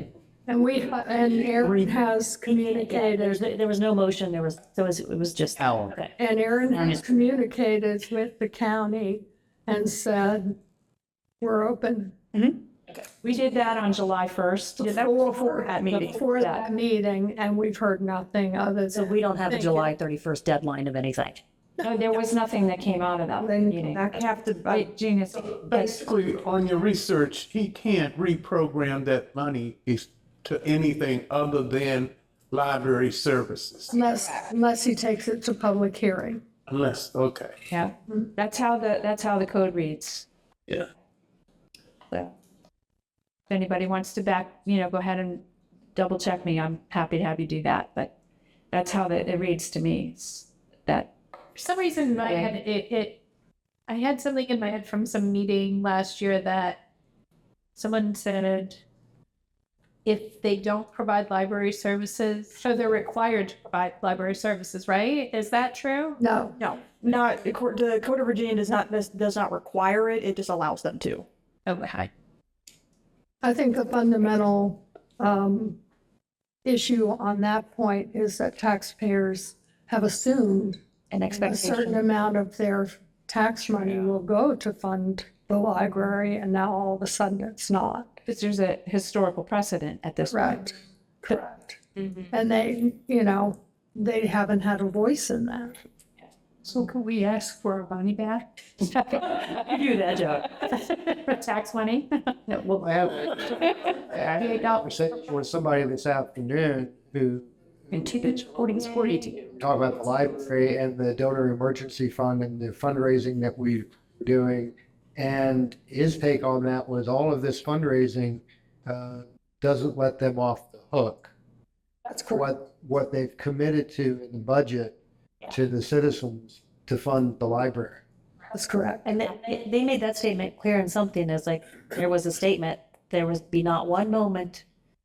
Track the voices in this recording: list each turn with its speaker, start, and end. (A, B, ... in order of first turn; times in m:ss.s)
0:00.5-0:03.4 A
0:02.9-0:06.1 B
0:06.2-0:10.6 A
0:11.4-0:12.2 A
0:13.2-0:15.1 C
0:14.8-0:16.2 D
0:14.9-0:19.9 A
0:16.0-0:16.6 C
0:19.0-0:21.4 B
0:21.8-0:24.0 C
0:23.4-0:24.0 A
0:23.9-0:24.8 D
0:24.7-0:25.9 C
0:25.6-0:34.0 E
0:33.9-0:36.4 A
0:36.7-0:37.5 E
0:37.7-0:40.3 C
0:43.5-0:45.4 C
0:45.9-0:48.1 C
0:48.7-0:51.1 C
0:51.6-0:53.2 F
0:52.2-0:52.6 C
0:53.9-0:56.8 F
0:57.8-0:58.8 F
1:00.0-1:06.2 F
1:06.2-1:06.6 A
1:06.6-1:11.2 D
1:11.6-1:12.1 F
1:13.4-1:15.8 A
1:16.6-1:20.8 A
1:21.2-1:21.9 B
1:21.3-1:28.1 A
1:28.2-1:30.7 C
1:30.3-1:30.7 A
1:31.2-1:31.8 A
1:32.3-1:35.8 A
1:36.6-1:38.4 C
1:39.3-1:40.4 B
1:40.6-1:42.6 C
1:42.7-1:47.5 G
1:44.4-1:44.7 C
1:49.6-2:01.3 G
2:02.0-2:02.4 A
2:02.3-2:05.0 G
2:05.5-2:08.0 G
2:08.5-2:09.0 A
2:09.0-2:14.6 B